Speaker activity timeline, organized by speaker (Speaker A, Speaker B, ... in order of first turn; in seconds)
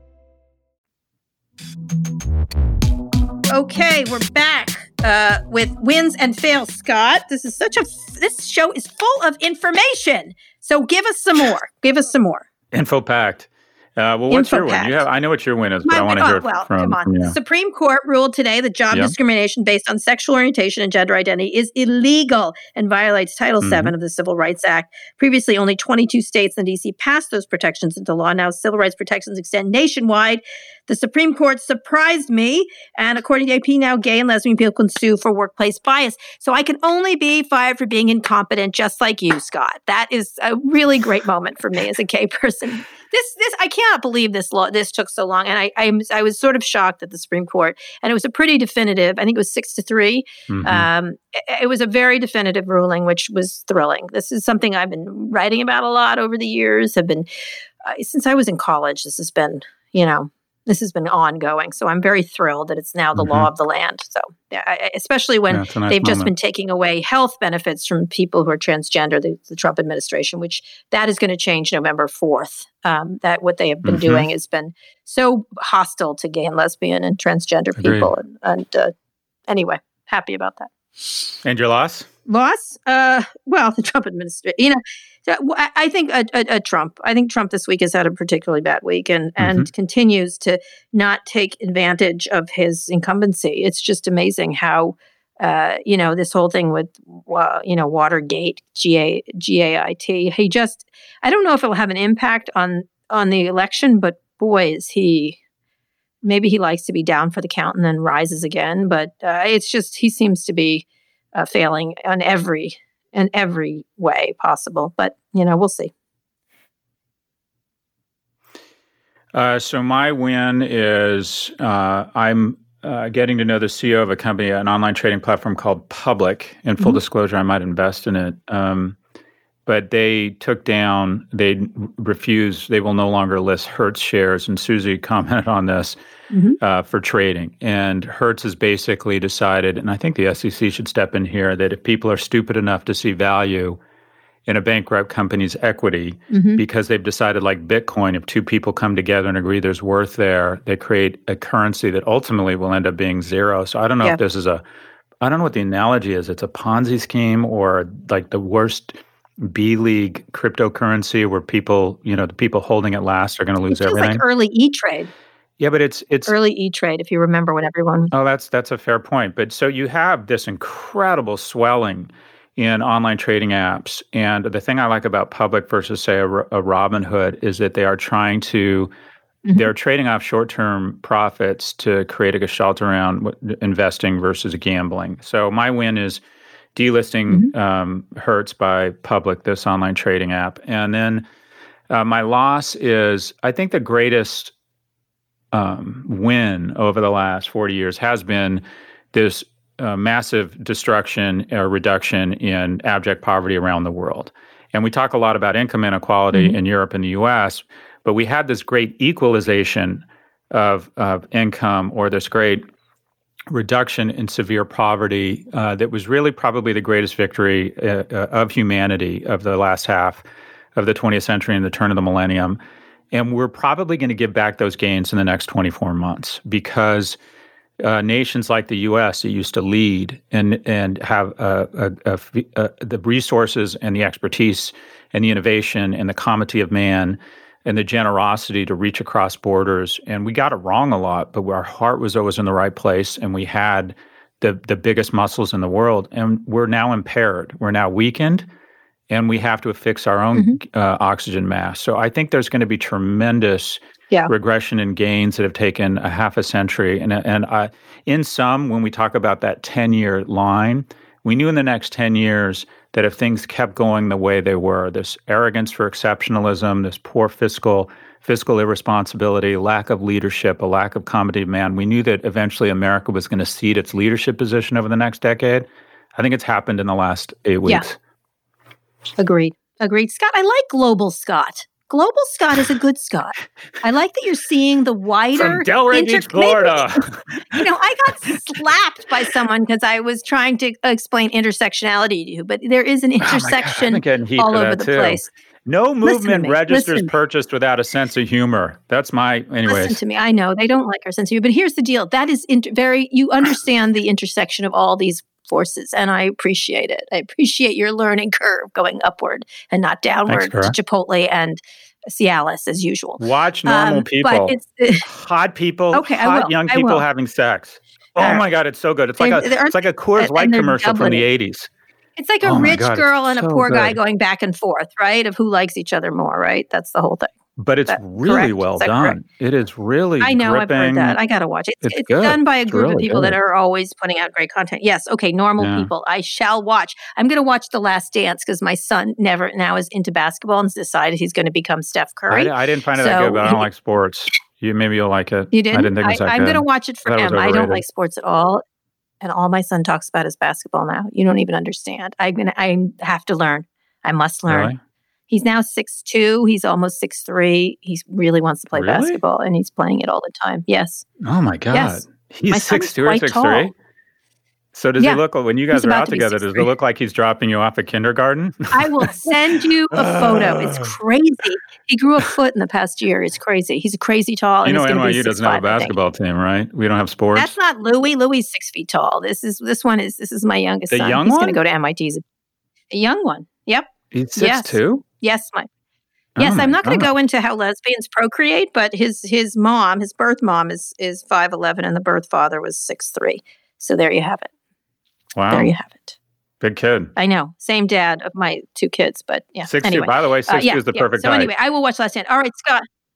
Speaker A: 3.5-12.5, 14.3-15.1, 15.9-57.3, 57.8-78.9, 79.5-80.7, 82.3-105.4, 106.2-115.9, 136.3-136.6, 146.3-146.6, 163.7-165.1, 166.3-168.1, 206.3-206.6, 279.2-287.0, 287.5-295.3, 296.1-297.1, 299.7-315.1, 315.9-317.0, 318.2-318.4, 319.2-321.2, 322.2-327.3, 327.9-329.2, 330.2-343.6, 345.5-348.6, 349.2-354.7, 355.3-361.1, 361.7-363.7, 365.7-366.7, 368.7-375.9, 377.4-382.2, 382.9-385.7, 386.4-394.5, 395.5-396.2, 397.2-402.9
Speaker B: 12.7-17.4, 23.6-23.9, 50.5-50.9, 63.2-63.5, 65.5-66.3, 73.8-74.3, 77.8-78.1, 81.4-82.1, 89.4-89.7, 119.3-129.0, 129.7-136.0, 136.6-143.8, 144.5-154.6, 155.2-164.2, 165.6-166.3, 168.1-178.9, 179.5-186.2, 186.8-191.2, 191.9-194.5, 195.5-212.7, 213.5-220.2, 220.8-222.6, 223.1-227.2, 227.8-248.5, 249.1-278.0, 285.4-287.7, 293.2-300.0, 310.3-310.7, 313.2-321.7, 322.4-324.0, 327.6-331.2, 331.8-333.4, 335.6-335.9, 342.3-347.8, 354.5-354.8, 358.7-359.2, 361.2-363.7, 364.7-369.3, 369.9-370.9, 374.6-377.5, 380.9-381.6, 384.1-385.0, 386.4-387.1, 395.4-395.7, 396.6-397.1, 399.7-401.5